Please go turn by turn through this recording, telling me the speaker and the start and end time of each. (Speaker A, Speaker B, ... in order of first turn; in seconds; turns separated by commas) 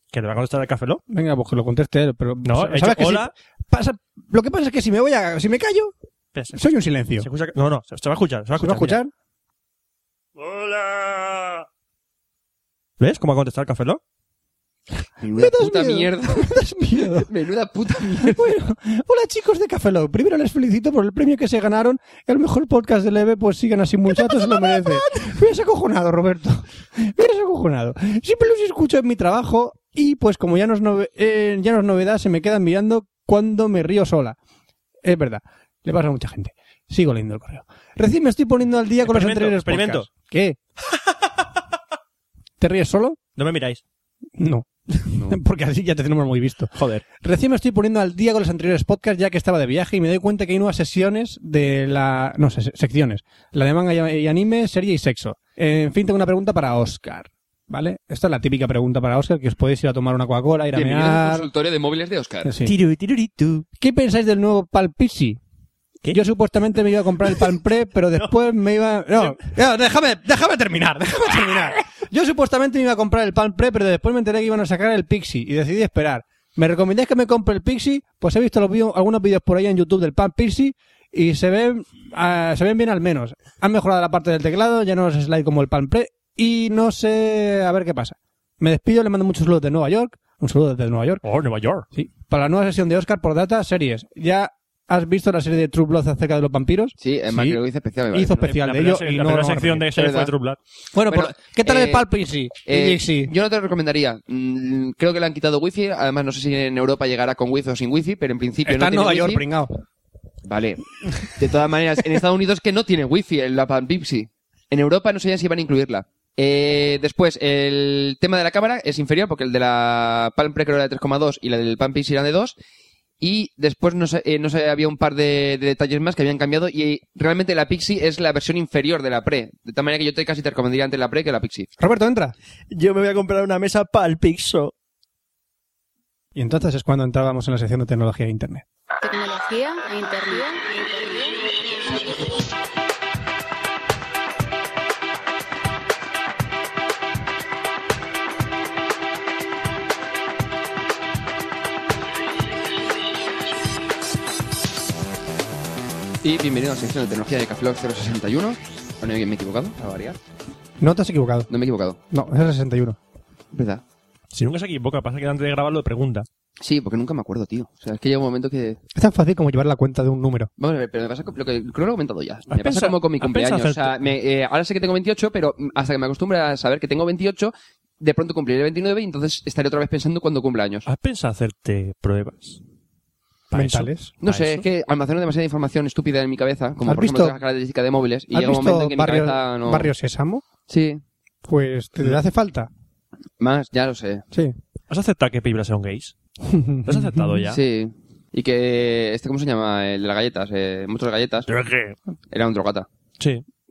Speaker A: 0.1-1.0, Speaker B: 1.1-5.9, Speaker A: 2.4-3.3, Speaker A: 6.3-6.6, Speaker B: 6.5-7.3, Speaker A: 7.2-9.0, Speaker B: 8.6-9.1, Speaker A: 10.4-11.7, Speaker A: 13.0-14.0, Speaker C: 15.2-18.4, Speaker B: 15.4-17.3, Speaker B: 18.2-34.4, Speaker B: 35.0-40.6, Speaker A: 39.0-40.1, Speaker B: 42.6-43.2, Speaker A: 43.4-43.8, Speaker B: 44.4-61.5, Speaker A: 46.7-47.0, Speaker C: 60.7-62.5, Speaker B: 62.5-62.7, Speaker A: 62.6-63.6, Speaker B: 63.8-65.4, Speaker B: 66.1-91.2, Speaker A: 69.2-69.5, Speaker A: 91.2-91.9, Speaker B: 91.9-97.6, Speaker C: 97.0-98.5, Speaker B: 98.1-99.9, Speaker A: 98.4-100.6, Speaker C: 99.9-100.3, Speaker B: 100.9-103.3, Speaker C: 101.1-102.1, Speaker C: 102.7-109.5, Speaker B: 108.6-109.7, Speaker C: 110.4-122.6, Speaker C: 123.2-131.7, Speaker B: 131.8-132.3, Speaker A: 132.7-134.7, Speaker B: 136.3-138.6, Speaker D: 139.0-142.0, Speaker C: 156.2-160.2, Speaker B: 160.8-161.5, Speaker C: 161.5-162.0, Speaker B: 162.1-163.0, Speaker C: 163.5-163.8, Speaker A: 164.3-166.3, Speaker C: 166.6-168.8, Speaker B: 169.0-170.5, Speaker C: 170.6-180.9, Speaker A: 172.5-174.0, Speaker A: 180.9-182.6, Speaker A: 183.5-184.6, Speaker B: 183.5-184.1, Speaker C: 184.2-189.9, Speaker B: 186.8-187.4, Speaker B: 188.3-190.4, Speaker C: 190.7-191.0, Speaker B: 191.4-192.7, Speaker C: 193.4-194.3, Speaker A: 194.9-196.1, Speaker B: 196.5-197.3, Speaker A: 196.9-197.6, Speaker C: 197.5-201.5, Speaker A: 201.5-202.0, Speaker C: 202.3-202.9, Speaker A: 203.2-203.4